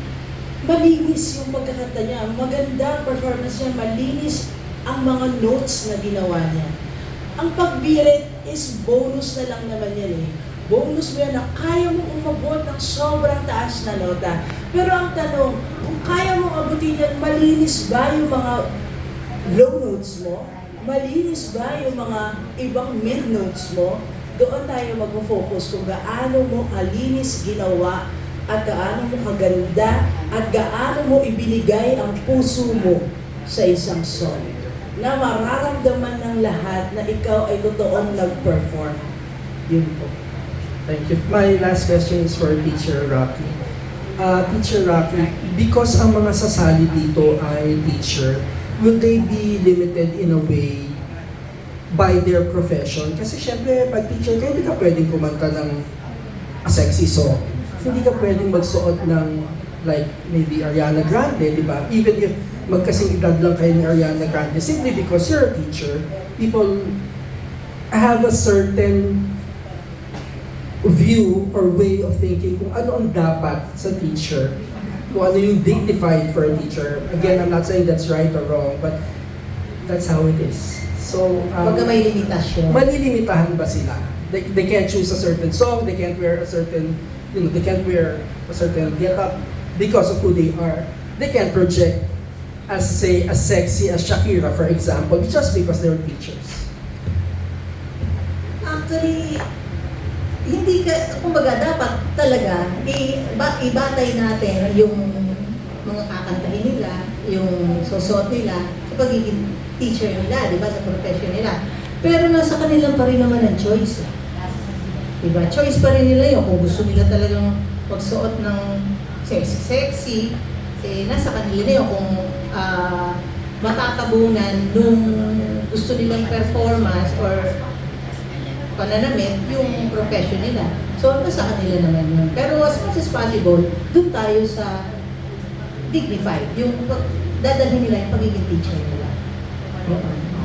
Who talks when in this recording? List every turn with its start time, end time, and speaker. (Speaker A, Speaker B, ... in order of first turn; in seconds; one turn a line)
Speaker A: 0.7-6.7
Speaker A: 7.4-18.6
Speaker A: 19.5-28.0
Speaker A: 28.5-34.5
Speaker A: 35.0-39.0
Speaker A: 39.7-40.1
Speaker B: 40.9-43.6
Speaker B: 44.2-51.0
Speaker B: 51.9-55.9
Speaker B: 56.6-67.0
Speaker B: 67.9-69.2
Speaker B: 70.8-74.6
Speaker B: 75.1-79.0
Speaker B: 79.9-82.0
Speaker C: 81.6-82.8
Speaker B: 82.7-92.1
Speaker B: 92.7-96.7
Speaker C: 98.7-99.4
Speaker C: 100.5-114.1
Speaker C: 115.2-127.5
Speaker C: 128.8-134.8
Speaker C: 135.9-139.1
Speaker B: 139.9-140.3